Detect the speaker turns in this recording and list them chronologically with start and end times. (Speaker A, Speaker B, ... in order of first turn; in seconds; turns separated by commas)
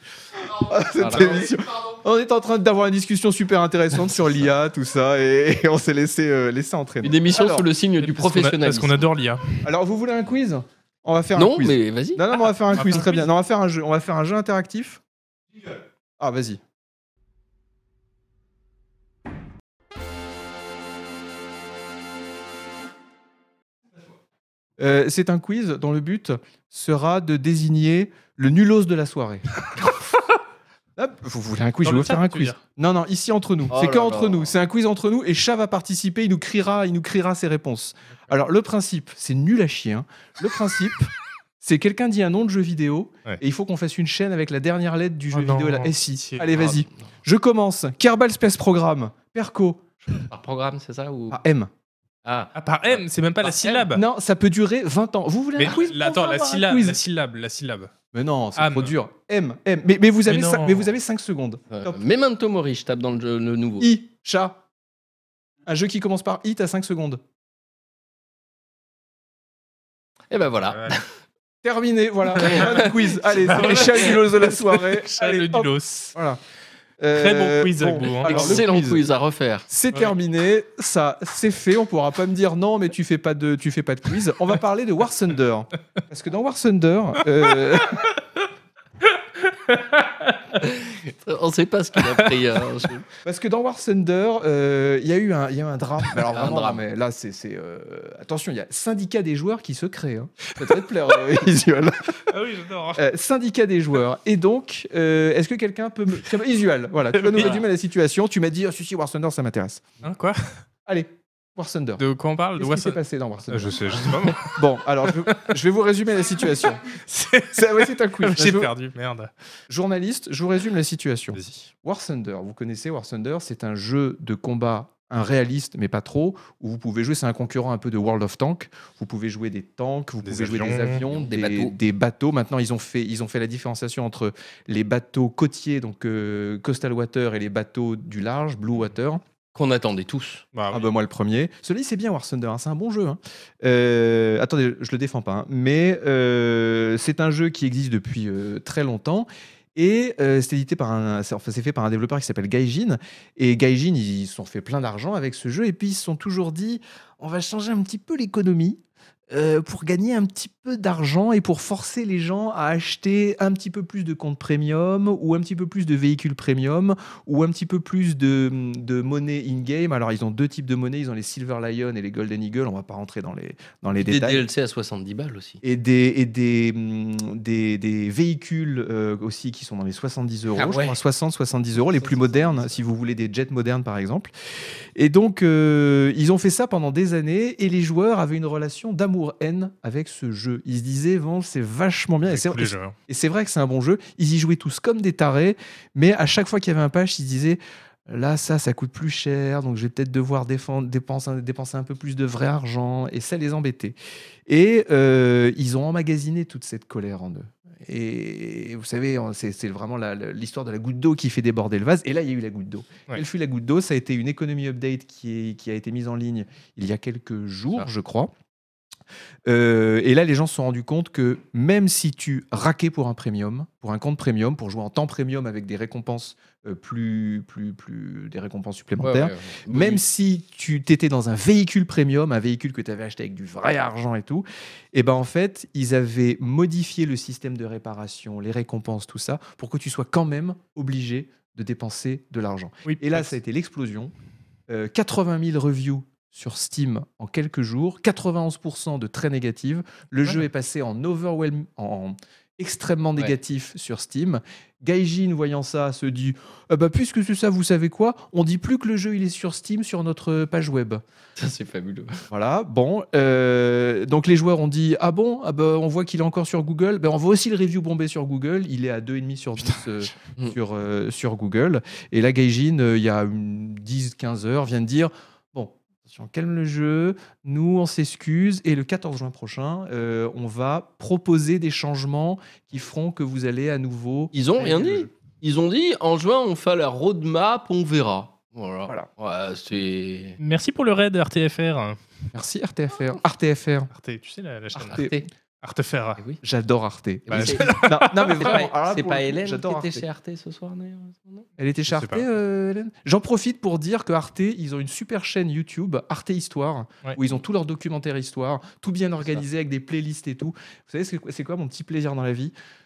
Speaker A: 0.4-7.7, Speaker B: 0.9-1.4, Speaker B: 7.0-9.0, Speaker C: 8.0-9.7, Speaker A: 9.6-15.0, Speaker B: 11.3-12.2, Speaker C: 12.7-13.3, Speaker A: 16.2-16.6, Speaker A: 24.8-29.9, Speaker A: 31.0-50.2, Speaker C: 31.8-32.6, Speaker B: 33.7-34.5, Speaker C: 45.3-46.5, Speaker B: 46.5-46.9, Speaker B: 50.2-51.4, Speaker A: 51.3-51.7, Speaker B: 52.2-52.9, Speaker C: 52.5-54.0, Speaker A: 53.4-57.0, Speaker C: 55.6-57.9, Speaker A: 58.1-62.0, Speaker C: 58.5-58.9, Speaker C: 60.3-60.9, Speaker B: 61.7-63.9, Speaker A: 63.8-64.6, Speaker A: 65.7-67.2, Speaker B: 70.3-71.1, Speaker C: 70.7-71.0, Speaker A: 71.6-76.4, Speaker C: 72.4-76.1, Speaker B: 72.4-72.9, Speaker A: 77.0-79.0, Speaker C: 77.1-78.7, Speaker B: 78.2-79.7, Speaker A: 79.7-88.1, Speaker C: 89.4-90.6, Speaker B: 90.5-93.0, Speaker C: 92.1-92.4, Speaker A: 93.2-102.3, Speaker B: 96.3-96.8, Speaker C: 102.2-103.0, Speaker A: 102.9-109.9, Speaker C: 107.2-107.6, Speaker B: 107.4-107.6, Speaker C: 110.0-110.5, Speaker A: 110.8-112.0, Speaker C: 112.0-113.0, Speaker A: 112.6-116.8, Speaker C: 113.5-115.5, Speaker C: 116.9-119.3, Speaker A: 117.5-118.7, Speaker A: 119.7-139.2, Speaker C: 121.3-121.7, Speaker C: 130.2-131.1, Speaker B: 131.1-131.8, Speaker B: 139.5-140.4, Speaker C: 140.5-140.9, Speaker A: 140.7-174.4, Speaker B: 173.9-175.6, Speaker A: 175.6-184.3, Speaker B: 180.5-180.9, Speaker B: 181.8-182.8, Speaker A: 184.9-203.9, Speaker C: 192.2-192.9, Speaker A: 204.5-218.3, Speaker A: 219.5-244.1, Speaker B: 229.0-230.0, Speaker C: 242.8-243.3, Speaker A: 244.7-261.0, Speaker B: 261.4-262.2, Speaker A: 262.3-285.1, Speaker B: 284.3-290.4, Speaker C: 290.4-292.0, Speaker A: 292.3-293.9, Speaker C: 293.9-295.1, Speaker A: 294.8-295.2, Speaker B: 294.8-295.2, Speaker C: 295.6-296.2, Speaker A: 296.4-300.0, Speaker B: 297.3-301.5, Speaker C: 297.3-298.6, Speaker A: 301.6-312.5, Speaker C: 301.9-302.2